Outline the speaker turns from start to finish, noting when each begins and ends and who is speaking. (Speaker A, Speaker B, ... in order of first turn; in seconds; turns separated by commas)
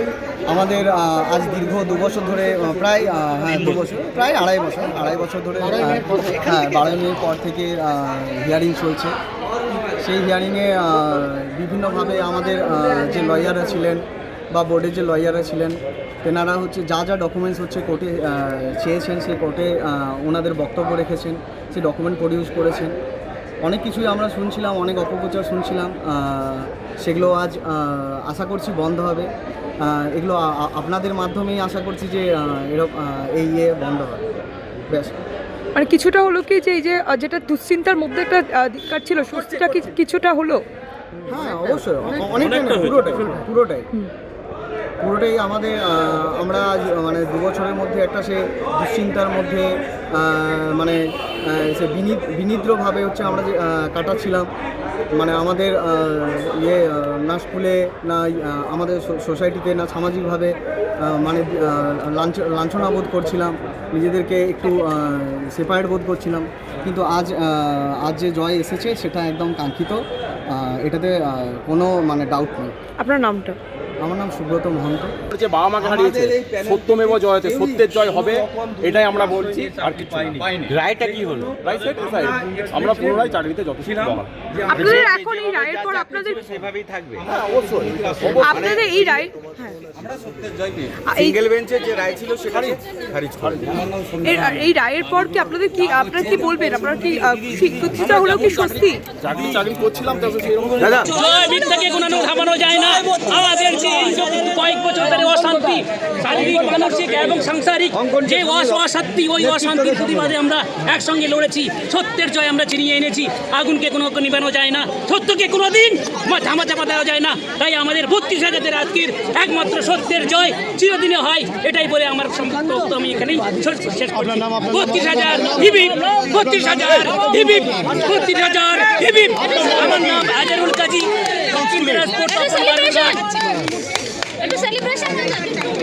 Speaker A: 0.5-9.1, Speaker A: 10.0-22.9, Speaker B: 12.7-13.5, Speaker A: 23.6-29.3, Speaker A: 29.8-34.2, Speaker A: 34.8-35.2, Speaker B: 35.7-40.6, Speaker A: 41.2-43.9, Speaker C: 42.4-43.0, Speaker A: 45.0-54.5, Speaker A: 55.1-72.7, Speaker B: 73.0-73.6, Speaker A: 74.0-75.1, Speaker C: 75.3-80.6, Speaker D: 76.0-76.7, Speaker D: 79.8-81.6, Speaker C: 81.6-84.3, Speaker D: 84.7-87.2, Speaker B: 84.7-86.5, Speaker C: 87.2-88.7, Speaker B: 88.4-89.9, Speaker D: 88.5-88.9, Speaker D: 90.2-93.8, Speaker B: 91.0-91.4, Speaker C: 93.4-93.8, Speaker B: 94.2-99.0, Speaker C: 98.0-101.1, Speaker D: 100.8-101.1, Speaker E: 101.1-133.4, Speaker E: 134.4-135.4